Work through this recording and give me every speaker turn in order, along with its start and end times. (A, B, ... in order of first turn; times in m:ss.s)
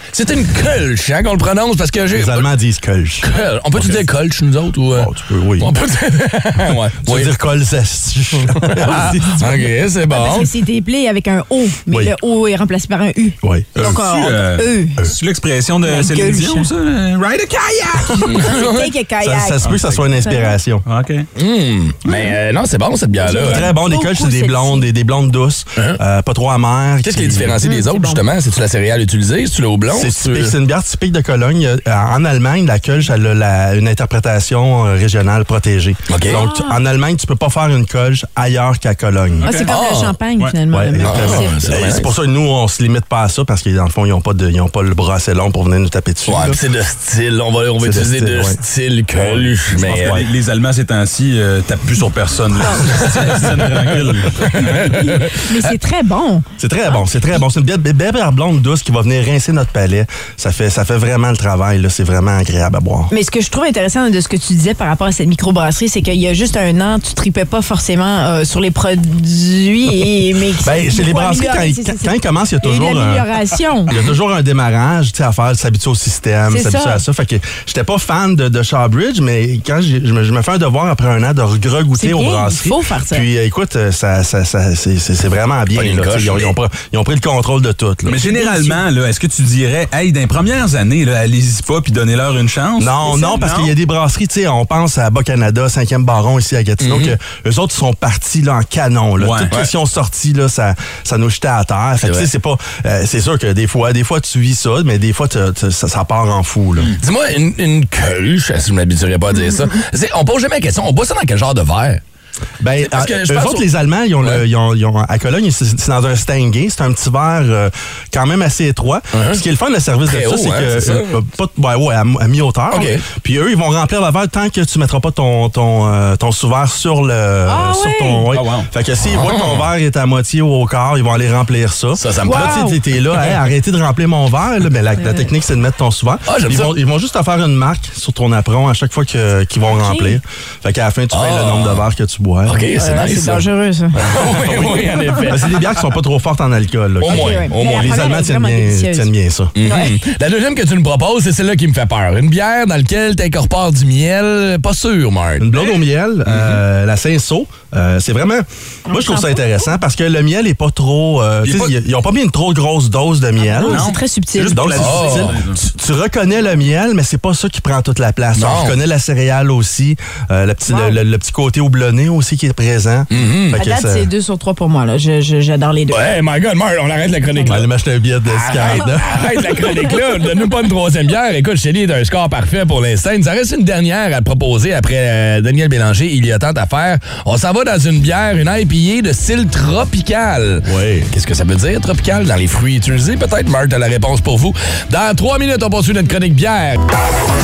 0:00.1-0:02.5 A
0:02.1-0:03.3 B
0:03.2-0:07.3 A
0:04.9-0:05.7 B
0:07.0-0:09.6 B
0:08.5-0:10.5 A
0:10.1-0:15.0 C
0:13.4-0:13.7 B
0:13.8-0:18.5 D
0:15.8-0:16.7 C
0:18.2-0:20.6 C
0:18.3-0:18.9 A
0:19.2-0:20.8 B
0:20.8-0:21.3 D
0:21.3-0:23.7 A
0:22.0-0:22.3 D
0:23.2-0:24.8 C
0:23.4-0:27.6 B
0:27.0-0:30.5 A
0:27.6-0:28.2 C
0:29.9-0:39.6 B
0:36.1-0:36.4 A
0:36.2-0:36.8 C
0:39.4-0:39.7 D
0:39.4-0:41.7 C
0:39.7-0:40.2 A
0:40.7-0:46.6 B
0:41.0-0:42.1 A
0:46.2-0:50.2 A
0:47.8-0:48.6 B
0:49.4-0:50.2 B
0:49.7-0:54.6 D
0:54.4-0:55.7 A
0:54.6-0:57.0 C
0:56.6-1:03.1 B
1:03.1-1:13.9 C
1:10.6-1:13.3 B
1:13.9-1:28.2 B
1:16.5-1:17.0 C
1:21.9-1:23.2 C
1:25.7-1:26.6 A
1:28.1-1:33.7 D
1:28.2-1:28.8 C
1:32.8-1:47.0 B
1:36.8-1:37.2 A
1:39.2-1:39.5 D
1:42.0-1:42.3 A
1:47.0-1:52.0 A
1:52.6-2:22.6 B
1:52.8-1:53.6 A
1:59.1-1:59.4 A
2:00.0-2:01.2 A
2:02.7-2:03.0 A
2:07.4-2:08.2 C
2:08.3-2:08.7 D
2:09.1-2:09.7 A
2:12.0-2:12.6 A
2:12.2-2:12.8 C
2:15.0-2:15.2 C
2:16.3-2:16.8 A
2:19.8-2:20.2 C
2:21.1-2:21.9 A
2:22.4-2:25.8 A
2:22.8-2:24.0 C
2:24.0-2:29.5 B
2:27.0-2:28.1 A
2:27.1-2:30.0 C
2:29.6-2:35.7 A
2:35.4-2:43.9 B
2:38.9-2:39.5 C
2:41.4-2:41.8 A
2:43.4-2:44.8 C
2:43.6-2:45.6 D
2:44.5-2:54.1 B
2:44.8-2:45.4 A
2:48.4-2:48.8 A
2:50.7-2:51.0 C
2:53.1-2:53.6 A
2:53.5-2:56.1 C
2:55.9-2:57.7 A
2:57.5-2:59.1 B
2:58.3-3:16.8 A
3:10.6-3:11.1 B